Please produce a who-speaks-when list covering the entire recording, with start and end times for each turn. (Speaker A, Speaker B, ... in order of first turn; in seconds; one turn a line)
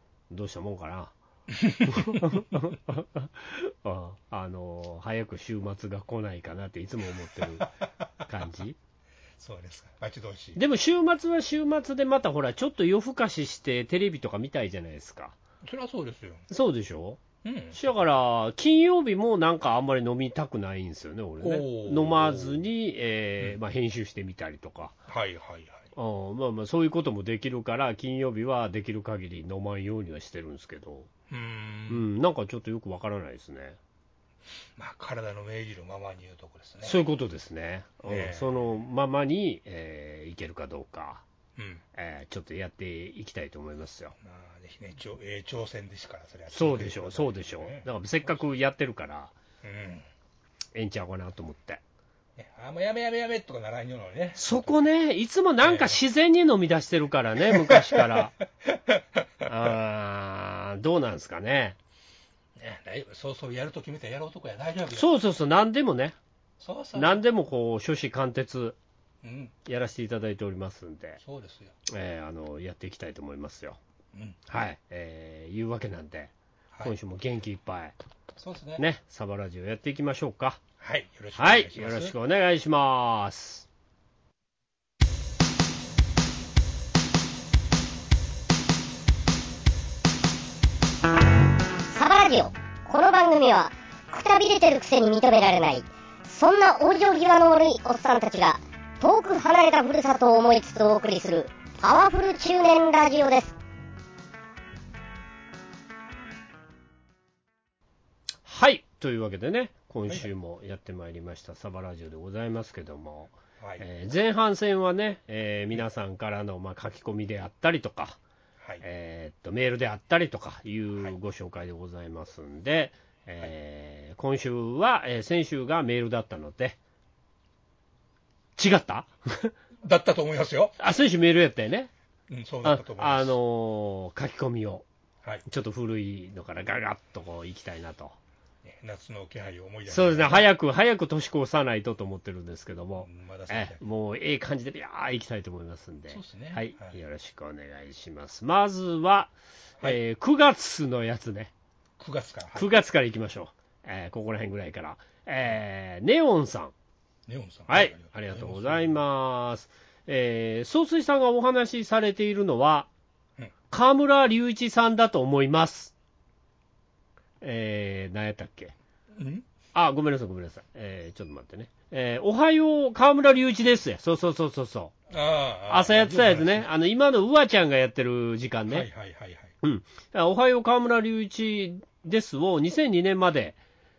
Speaker A: 0.3-1.1
Speaker B: 1.5-2.4
Speaker A: 1.8-7.7
Speaker B: 7.3-8.3
Speaker A: 8.2-8.8
Speaker B: 9.4-10.6
Speaker A: 10.6-15.3
Speaker B: 15.6-16.4
Speaker A: 16.5-17.2
Speaker B: 17.4-17.9
Speaker A: 17.7-24.9
Speaker B: 21.4-22.6
Speaker B: 25.1-25.9
Speaker A: 25.9-31.1
Speaker B: 31.3-32.0
Speaker A: 31.9-33.8
Speaker B: 34.8-37.0
Speaker A: 36.8-41.2
Speaker B: 38.0-38.7
Speaker B: 41.5-41.8
Speaker A: 41.9-44.1
Speaker B: 44.2-47.9
Speaker A: 46.5-49.3
Speaker B: 49.6-50.1
Speaker A: 50.7-51.8
Speaker B: 52.4-54.8
Speaker A: 54.4-58.4
Speaker B: 55.6-56.0
Speaker B: 57.5-59.7
Speaker A: 59.5-61.8
Speaker B: 62.5-65.1
Speaker A: 64.9-66.2
Speaker B: 66.6-67.2
Speaker A: 67.0-68.8
Speaker B: 69.2-69.5
Speaker A: 69.7-71.2
Speaker B: 71.2-71.7
Speaker A: 71.9-73.8
Speaker A: 74.5-76.3
Speaker A: 76.8-77.9
Speaker B: 78.4-78.8
Speaker A: 78.8-80.6
Speaker B: 80.8-82.1
Speaker A: 81.4-83.7
Speaker C: 91.9-103.6
Speaker A: 108.4-118.2
Speaker B: 113.6-113.8
Speaker A: 118.8-126.8
Speaker A: 128.6-129.5
Speaker B: 129.8-130.8
Speaker A: 130.8-131.9
Speaker B: 132.3-133.3
Speaker A: 132.6-134.8
Speaker A: 135.5-138.1
Speaker B: 138.6-140.5
Speaker A: 139.9-151.5
Speaker B: 143.0-143.8
Speaker B: 146.1-147.0
Speaker B: 152.0-152.7
Speaker A: 152.5-156.7
Speaker B: 157.3-159.0
Speaker A: 157.7-162.9
Speaker A: 163.7-165.9
Speaker A: 167.4-168.7
Speaker B: 169.1-169.4
Speaker A: 169.7-174.9
Speaker B: 175.1-176.7
Speaker A: 175.7-178.9
Speaker B: 178.7-179.5
Speaker A: 179.6-183.6